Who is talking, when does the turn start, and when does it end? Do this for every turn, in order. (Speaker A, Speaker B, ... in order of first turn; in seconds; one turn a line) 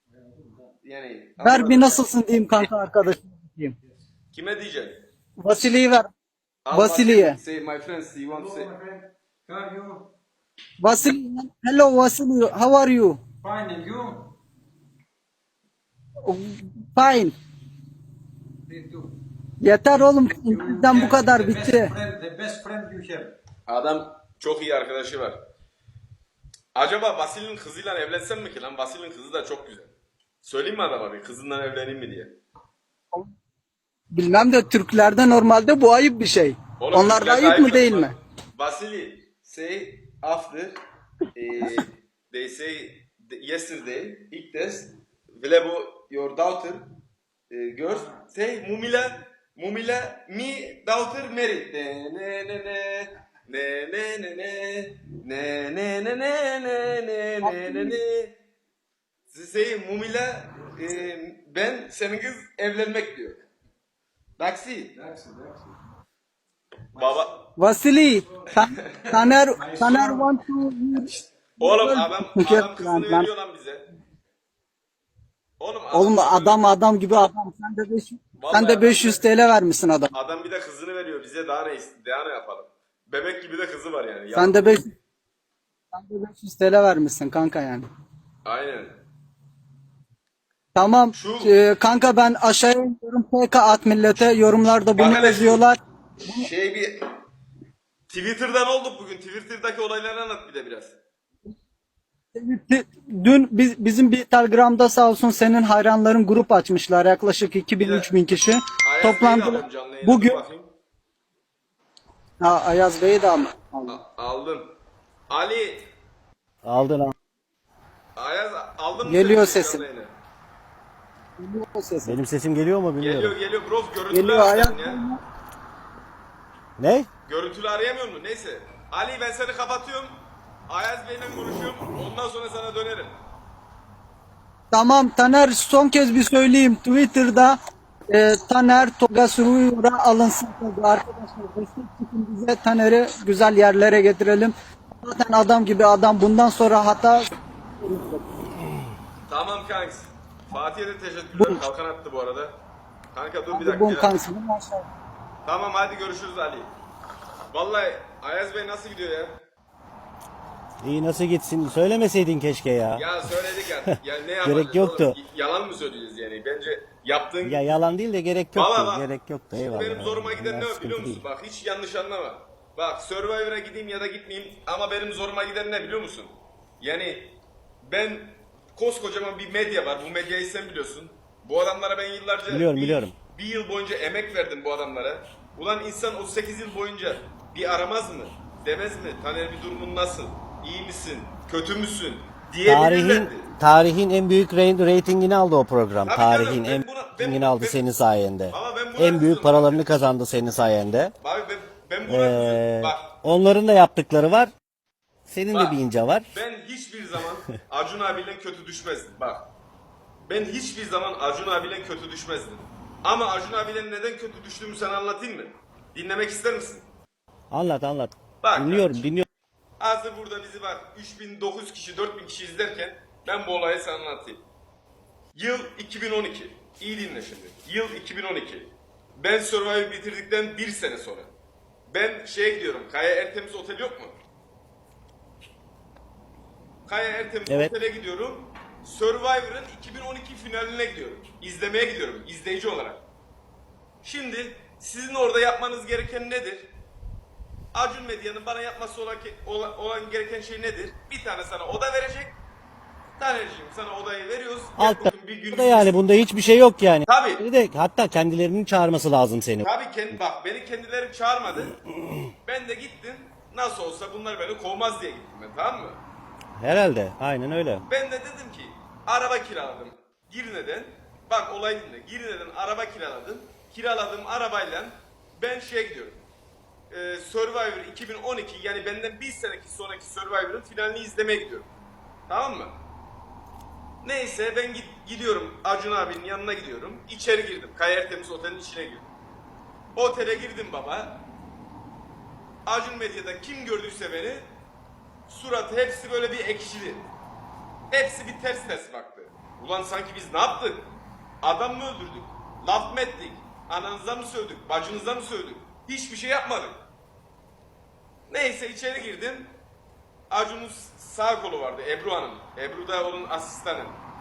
Speaker A: 0.2-0.7
Speaker B: 0.8-2.0
Speaker C: 1.4-3.8
Speaker B: 4.3-5.0
Speaker C: 5.4-6.1
Speaker B: 6.6-8.7
Speaker C: 6.7-7.4
Speaker A: 8.3-10.1
Speaker C: 10.8-13.2
Speaker A: 13.4-14.3
Speaker C: 16.2-17.3
Speaker A: 18.7-19.1
Speaker C: 19.6-21.9
Speaker A: 20.4-23.3
Speaker B: 23.7-25.4
Speaker B: 26.7-32.3
Speaker C: 34.1-38.1
Speaker B: 36.8-40.8
Speaker B: 41.3-46.9
Speaker B: 47.5-58.3
Speaker C: 57.4-57.9
Speaker B: 59.3-63.5
Speaker B: 64.4-65.0
Speaker A: 65.0-65.7
Speaker B: 66.9-67.5
Speaker C: 67.6-73.3
Speaker B: 68.6-69.0
Speaker A: 69.1-70.3
Speaker B: 71.6-73.9
Speaker B: 75.6-76.7
Speaker C: 75.9-80.1
Speaker B: 78.4-79.2
Speaker B: 80.1-84.8
Speaker C: 84.3-84.9
Speaker C: 85.9-87.8
Speaker B: 88.4-89.0
Speaker C: 90.7-95.8
Speaker B: 91.1-91.5
Speaker B: 95.0-95.7
Speaker B: 96.2-97.0
Speaker B: 98.1-101.0
Speaker C: 102.3-110.4
Speaker B: 107.8-108.1
Speaker B: 108.8-110.7
Speaker C: 112.4-114.0
Speaker B: 113.9-114.7
Speaker B: 115.3-115.9
Speaker D: 116.6-117.1
Speaker B: 118.2-120.1
Speaker C: 119.0-119.8
Speaker C: 121.4-122.2
Speaker D: 122.0-123.3
Speaker B: 123.0-125.0
Speaker C: 124.1-125.2
Speaker D: 126.8-127.1
Speaker B: 127.2-130.1
Speaker B: 130.7-133.2
Speaker C: 134.7-137.6
Speaker C: 138.1-147.2
Speaker C: 147.8-148.2
Speaker B: 149.3-152.6
Speaker B: 153.1-154.2
Speaker C: 153.5-154.9
Speaker B: 155.4-156.7
Speaker B: 157.5-159.4
Speaker D: 160.8-163.1
Speaker B: 162.9-167.6
Speaker D: 164.4-165.2
Speaker D: 167.4-171.2
Speaker B: 168.5-169.1
Speaker B: 169.6-193.5
Speaker D: 182.5-183.1
Speaker D: 192.6-201.1
Speaker B: 196.1-197.8
Speaker B: 198.5-199.8
Speaker B: 201.2-203.1
Speaker D: 202.1-204.5
Speaker D: 205.2-206.3
Speaker B: 205.5-205.8
Speaker B: 206.3-209.4
Speaker B: 210.3-216.9
Speaker D: 217.5-219.2
Speaker B: 218.4-219.0
Speaker B: 219.8-224.4
Speaker B: 225.3-231.3
Speaker B: 231.9-234.2
Speaker B: 236.8-243.0
Speaker B: 244.0-246.7
Speaker B: 247.7-252.3
Speaker B: 253.2-255.9
Speaker D: 254.8-259.7
Speaker B: 257.1-257.4
Speaker B: 259.6-261.8
Speaker B: 262.4-266.0
Speaker D: 266.6-267.8
Speaker B: 267.9-276.2
Speaker B: 276.9-281.7
Speaker B: 282.3-282.8
Speaker B: 284.0-289.1
Speaker B: 289.9-291.2
Speaker B: 292.6-294.5
Speaker B: 295.2-297.1
Speaker B: 297.9-306.8
Speaker B: 308.3-309.6
Speaker B: 310.3-314.0